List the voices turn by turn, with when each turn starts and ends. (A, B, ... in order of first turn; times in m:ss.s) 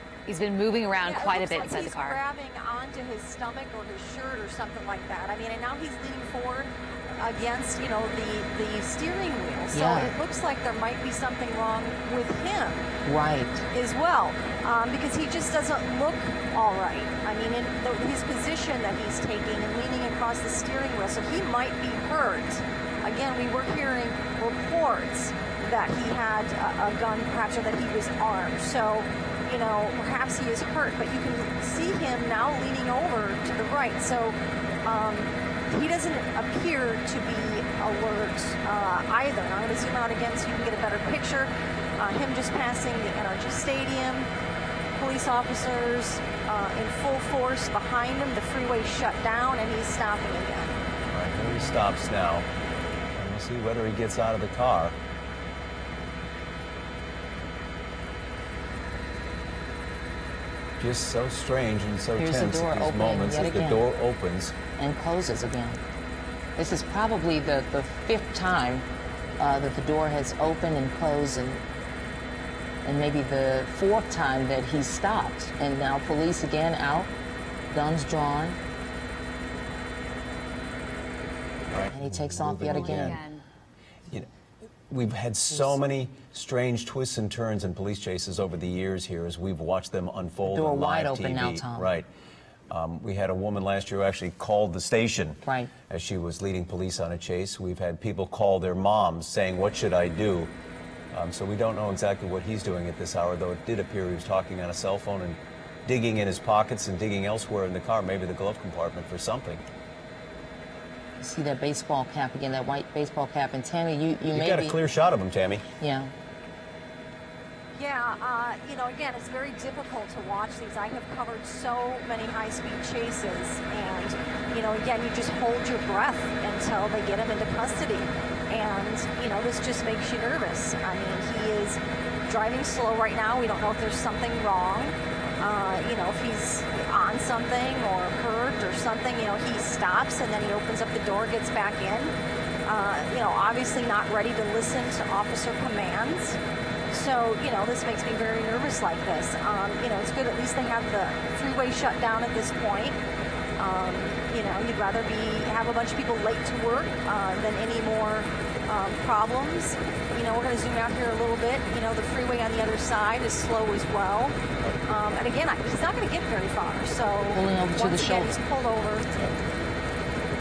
0:00.3-0:02.2 A
0:01.0-0:12.9 B
0:09.7-0:10.1 C
0:13.0-0:13.6 C
0:13.7-0:44.3 B
0:44.9-0:50.7 B
0:51.1-0:52.4 D
0:51.4-0:51.8 C
0:53.1-0:54.9 D
1:00.8-1:04.5 D
1:02.2-1:03.8 C
1:04.8-1:05.8 C
1:06.6-1:08.8 C
1:09.4-1:11.6 C
1:12.8-1:17.1 C
1:17.7-1:18.6 C
1:21.7-1:23.2 D
1:21.9-1:23.2 C
1:22.7-1:23.4 A
1:24.9-1:32.1 D
1:30.5-1:31.9 C
1:32.7-1:40.5 D
1:35.4-1:35.7 C
1:41.1-1:49.6 D
1:51.2-1:54.8 C
1:54.3-1:55.6 D
1:55.8-1:56.1 C
1:57.8-2:22.1 B
2:22.6-2:26.4 B
2:26.9-2:33.0 B
2:33.6-2:44.4 B
2:44.9-2:49.1 B
2:47.3-2:48.4 C